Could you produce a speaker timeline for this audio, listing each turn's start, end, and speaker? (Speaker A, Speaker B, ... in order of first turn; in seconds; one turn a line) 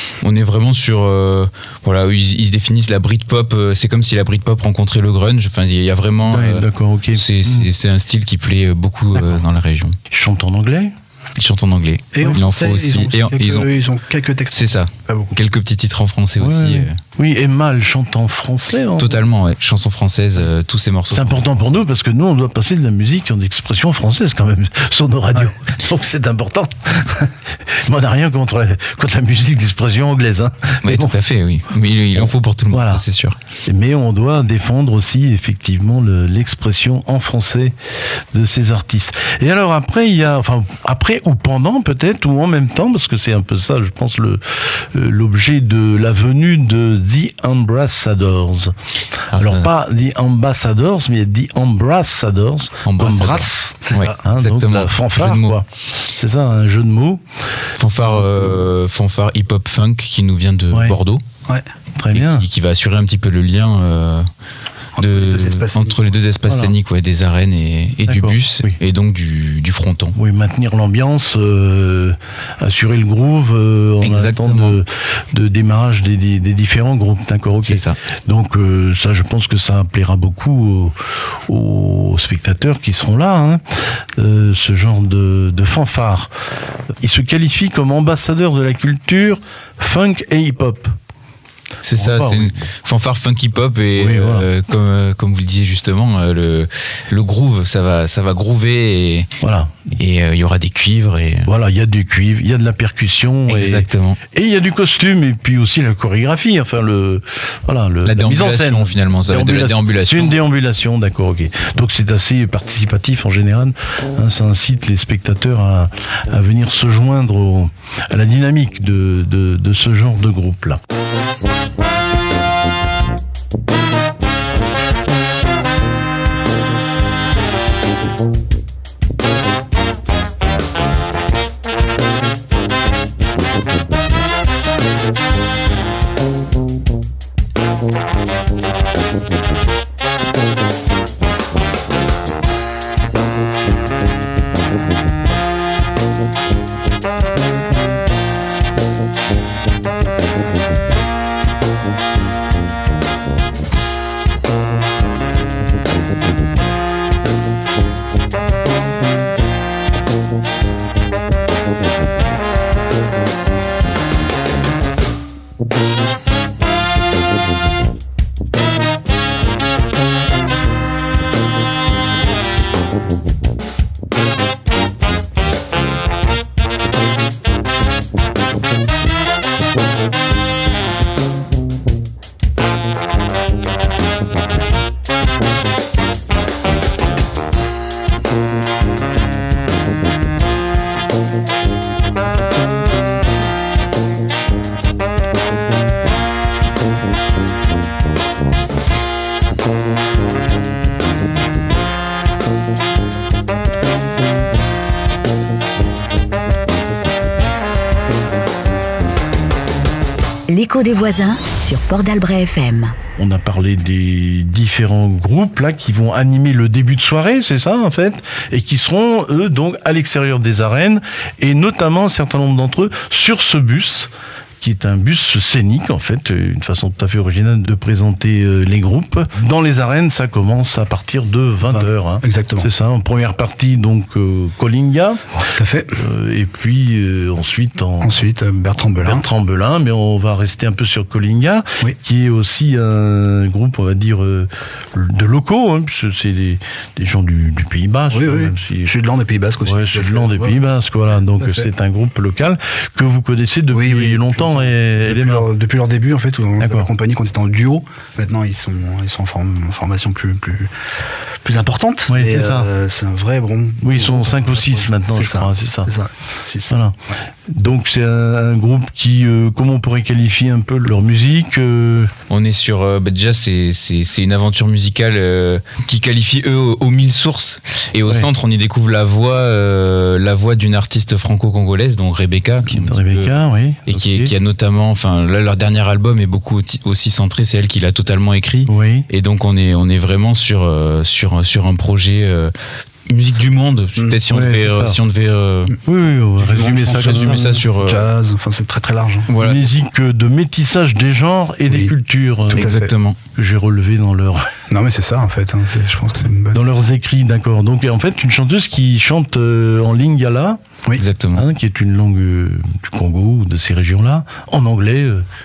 Speaker A: 0.2-10.0
Speaker B: 6.3-7.7
Speaker B: 9.2-9.4
Speaker B: 10.1-10.9
Speaker A: 11.4-13.7
Speaker C: 12.1-15.3
Speaker A: 14.5-16.9
Speaker B: 16.4-19.2
Speaker A: 19.0-21.8
Speaker B: 21.1-31.1
Speaker A: 30.8-33.4
Speaker B: 32.2-33.0
Speaker B: 33.7-37.8
Speaker B: 38.3-48.7
Speaker A: 49.3-49.7
Speaker B: 49.3-57.2
Speaker A: 52.9-55.6
Speaker C: 53.8-54.1
Speaker A: 57.8-61.2
Speaker B: 58.1-58.5
Speaker B: 62.0-62.5
Speaker A: 62.1-64.3
Speaker C: 65.0-66.0
Speaker A: 65.0-70.2
Speaker B: 68.1-68.8
Speaker B: 70.2-86.3
Speaker A: 74.0-74.8
Speaker A: 77.6-78.0
Speaker B: 87.0-90.9
Speaker A: 91.8-99.3
Speaker B: 92.0-92.5
Speaker B: 94.0-94.5
Speaker B: 99.4-99.9
Speaker A: 100.0-101.5
Speaker B: 101.5-120.8
Speaker A: 103.5-104.2
Speaker A: 108.0-110.4
Speaker D: 210.5-213.0
Speaker B: 213.2-224.1
Speaker B: 224.6-235.3
Speaker C: 231.7-232.7
Speaker C: 235.6-236.0
Speaker B: 236.0-238.2
Speaker C: 238.0-239.2
Speaker B: 239.0-248.9
Speaker C: 248.1-250.6
Speaker B: 249.6-255.5
Speaker C: 251.4-251.7
Speaker C: 253.7-260.7
Speaker B: 256.6-256.9
Speaker C: 261.4-266.8
Speaker B: 262.1-262.7
Speaker B: 263.8-265.9
Speaker B: 266.7-267.0
Speaker B: 267.5-272.1
Speaker A: 272.3-292.5
Speaker B: 282.7-284.3
Speaker B: 288.7-289.1
Speaker A: 293.1-295.8
Speaker B: 294.3-295.0
Speaker B: 295.9-297.6
Speaker C: 296.4-299.3
Speaker A: 296.5-298.1
Speaker A: 299.3-299.7
Speaker B: 299.4-302.6
Speaker C: 301.7-301.9
Speaker A: 302.5-303.2
Speaker C: 302.5-302.9
Speaker B: 303.4-304.5
Speaker C: 304.7-306.6
Speaker B: 306.5-310.6
Speaker A: 311.0-311.5
Speaker B: 311.4-315.2